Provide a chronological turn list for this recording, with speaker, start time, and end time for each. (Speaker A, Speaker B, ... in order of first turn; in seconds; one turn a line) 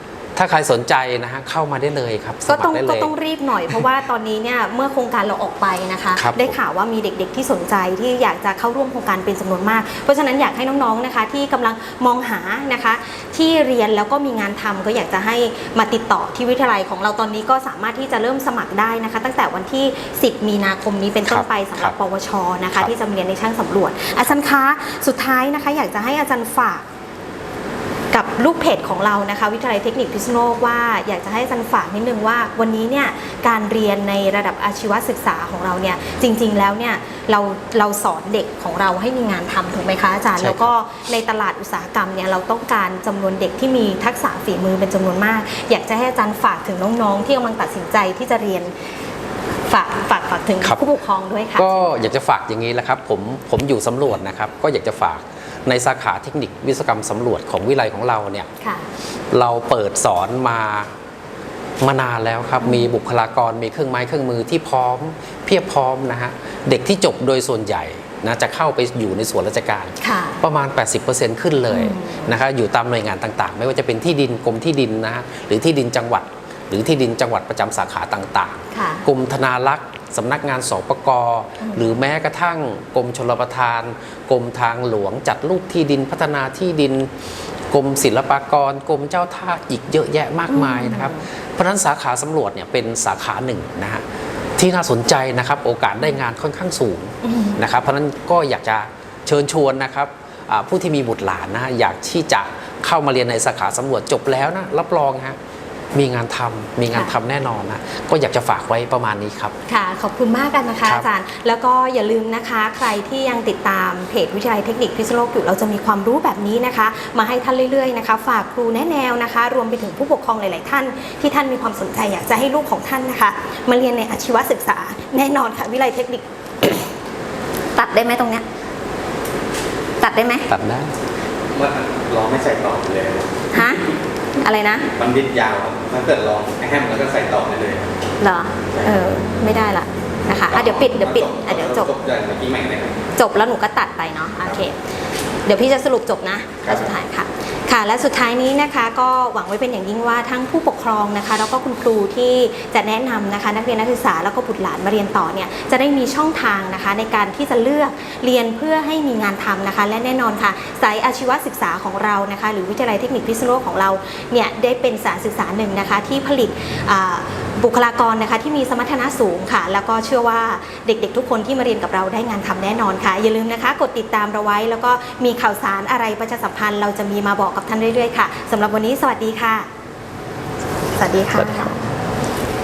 Speaker A: 0.3-3.1
Speaker B: 2.5-26.9
Speaker A: 6.1-6.6
Speaker A: 21.3-21.9
Speaker B: 28.1-48.8
Speaker A: 40.4-40.7
Speaker B: 49.7-52.1
Speaker A: 51.5-58.5
Speaker B: 58.6-58.9
Speaker A: 59.3-60.9
Speaker A: 61.8-94.0
Speaker B: 62.6-62.9
Speaker B: 70.0-70.4
Speaker B: 71.7-72.3
Speaker B: 78.7-79.0
Speaker B: 90.5-91.2
Speaker A: 94.6-105.4
Speaker B: 97.2-97.6
Speaker A: 105.9-109.5
Speaker B: 109.7-126.8
Speaker B: 127.7-128.4
Speaker B: 130.0-130.5
Speaker A: 130.5-130.9
Speaker C: 131.5-133.7
Speaker B: 133.5-133.8
Speaker B: 134.3-134.9
Speaker C: 134.9-137.9
Speaker B: 138.2-141.9
Speaker C: 140.5-143.0
Speaker B: 143.1-144.8
Speaker B: 145.4-179.7
Speaker B: 180.9-181.9